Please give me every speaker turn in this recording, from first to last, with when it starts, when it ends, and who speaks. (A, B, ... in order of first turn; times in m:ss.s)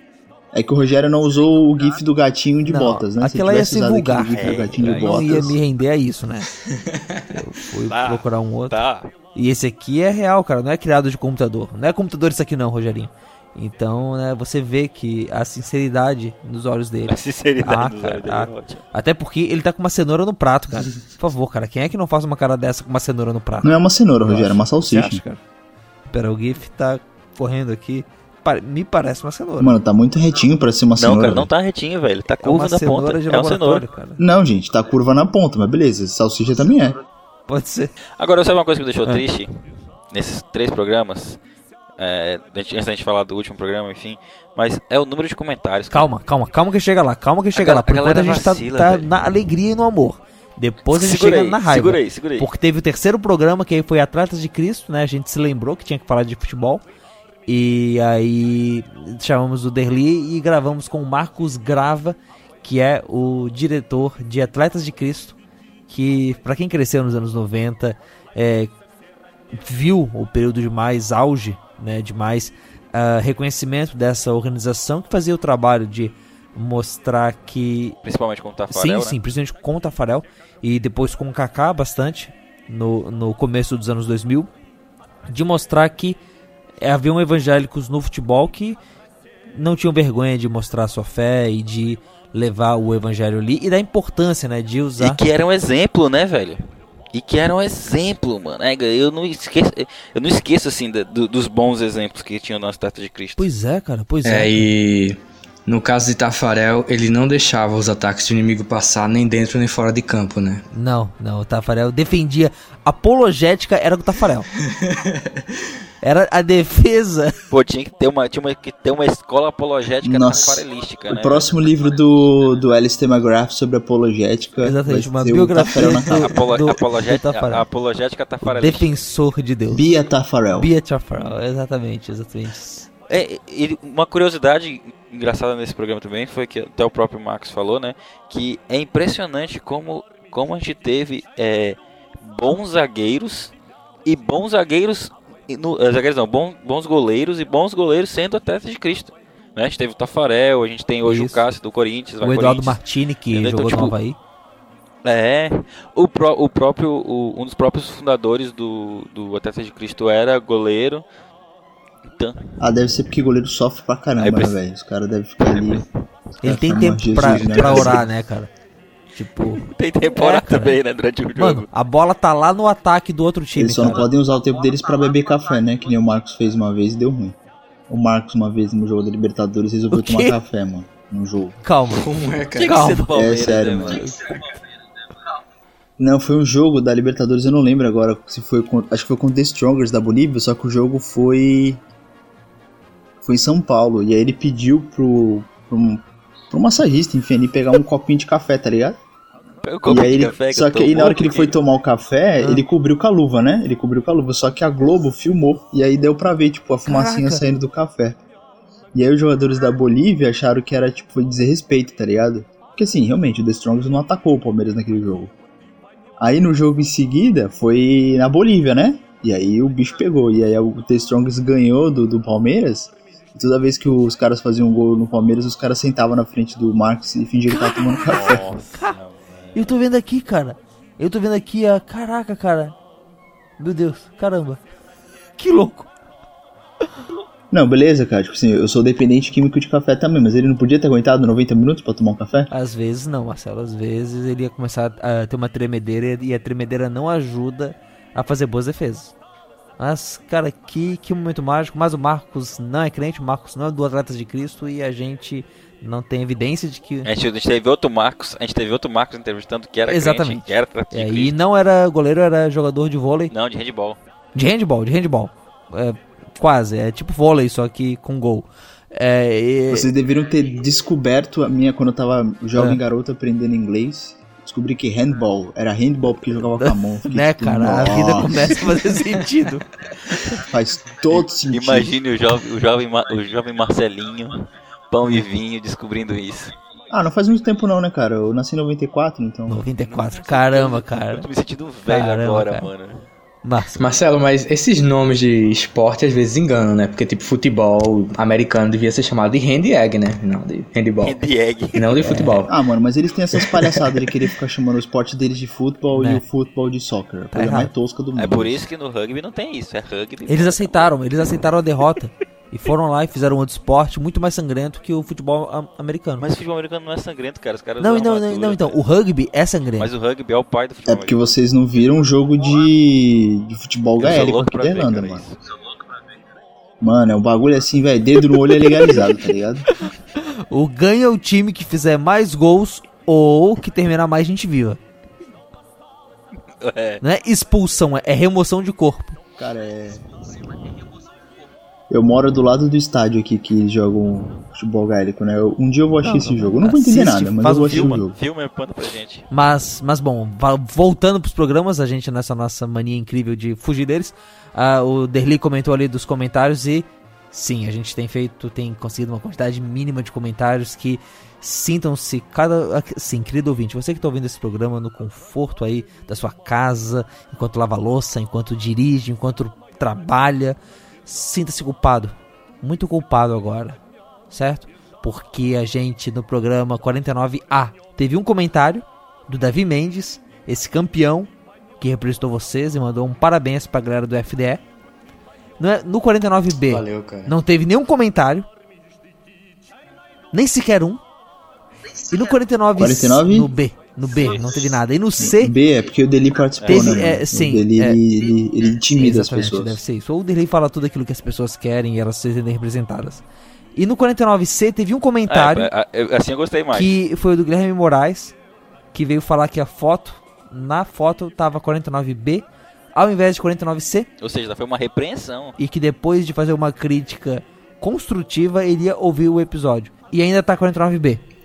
0:00.5-0:05.6 A
0:02.6-0:06.5 B
0:04.3-0:05.2 C
0:06.7-0:07.2 D
0:07.3-0:08.8 B
0:07.9-0:09.1 C
0:09.4-0:25.4 B
0:17.1-0:18.8 C
0:23.6-0:25.2 A
0:26.1-0:29.8 B
0:29.6-0:31.5 A
0:31.0-0:33.8 C
0:32.4-0:34.2 B
0:34.2-0:37.0 A
0:37.5-0:37.9 B
0:38.2-0:41.4 C
0:42.0-0:46.1 C
0:45.9-0:56.8 B
0:47.5-0:49.1 C
0:50.9-0:52.5 C
0:57.5-1:05.4 B
1:05.9-1:08.7 B
1:09.5-1:18.0 B
1:18.0-1:19.2 C
1:18.7-1:24.5 B
1:25.3-1:26.2 B
1:26.8-1:28.8 B
1:29.5-1:35.2 B
1:35.0-1:36.6 C
1:37.1-1:43.5 C
1:43.4-1:44.7 B
1:44.2-1:50.6 D
1:50.7-1:54.5 B
1:54.7-1:55.5 D
1:56.0-1:57.4 B
1:57.5-2:01.5 C
2:00.0-2:06.3 A
2:04.6-2:07.6 B
2:05.9-2:08.9 C
2:08.4-2:10.0 B
2:09.7-2:10.7 A
2:10.5-2:12.9 B
2:13.1-2:23.5 C
2:24.1-2:32.8 C
2:31.0-2:31.4 B
2:32.2-2:34.2 B
2:33.3-2:34.0 C
2:35.0-2:41.0 C
2:42.0-2:42.9 C
2:42.6-2:45.9 A
2:44.2-2:44.6 C
2:45.4-2:45.9 C
2:46.4-2:48.5 B
2:46.4-2:48.1 A
2:47.2-2:48.0 C
2:49.1-2:50.8 B
2:49.5-2:51.7 C
2:51.4-2:54.1 B
2:53.6-2:57.4 A
2:57.9-3:01.6 A
2:59.9-3:00.4 B
3:01.6-3:02.1 B
3:01.9-3:02.8 D
3:02.5-3:04.3 C
3:02.6-3:03.2 B
3:03.1-3:04.0 A
3:06.0-3:11.8 A
3:13.2-3:19.0 A
3:19.6-3:21.6 C
3:19.9-3:28.2 A
3:26.9-3:27.4 B
3:28.9-3:35.3 A
3:36.2-3:48.4 A
3:47.5-3:49.0 B
3:48.0-3:49.7 C
3:49.6-3:52.8 B
3:53.6-3:54.6 B
3:55.4-3:55.9 B
3:57.5-4:02.5 A
4:02.5-4:09.1 B
4:09.8-4:17.1 B
4:17.0-4:21.3 C
4:19.9-4:23.3 B
4:23.3-4:24.0 C
4:24.4-4:29.9 B
4:29.7-4:38.7 A
4:32.6-4:32.8 B
4:36.6-4:39.6 B
4:40.4-4:42.0 A
4:41.5-4:46.5 C
4:46.9-4:49.6 A
4:49.5-4:51.3 B
4:49.9-4:53.1 C
4:51.9-4:52.7 B
4:53.4-4:53.8 B
4:53.8-5:01.2 D
5:01.0-5:02.5 C
5:01.7-5:02.5 D
5:02.5-5:08.6 A
5:03.4-5:04.0 D
5:05.9-5:06.2 B
5:07.3-5:07.7 B
5:08.2-5:10.9 C
5:10.3-5:16.2 B
5:16.2-5:18.8 C
5:17.8-5:19.9 B
5:19.8-5:21.2 C
5:20.9-5:25.2 A
5:24.0-5:25.4 C
5:26.8-5:29.7 A
5:28.6-5:29.0 B
5:30.5-5:34.8 B
5:36.6-5:37.0 C
5:37.0-5:39.2 B
5:39.4-5:40.0 A
5:41.9-5:48.2 A
5:46.0-5:48.0 B
5:47.7-5:49.3 C
5:49.3-6:13.8 B
6:14.3-6:24.6 B
6:25.6-6:28.5 B
6:26.7-6:27.4 D
6:30.3-6:31.0 B
6:32.1-6:35.5 B
6:32.8-6:33.5 A
6:35.2-6:39.8 A
6:36.6-6:37.0 C
6:36.7-6:38.0 B
6:39.0-6:43.2 B
6:43.8-6:45.7 B
6:45.3-6:47.0 C
6:46.7-6:48.4 B
6:48.9-6:54.1 B
6:54.2-6:55.6 C
6:55.6-7:01.2 B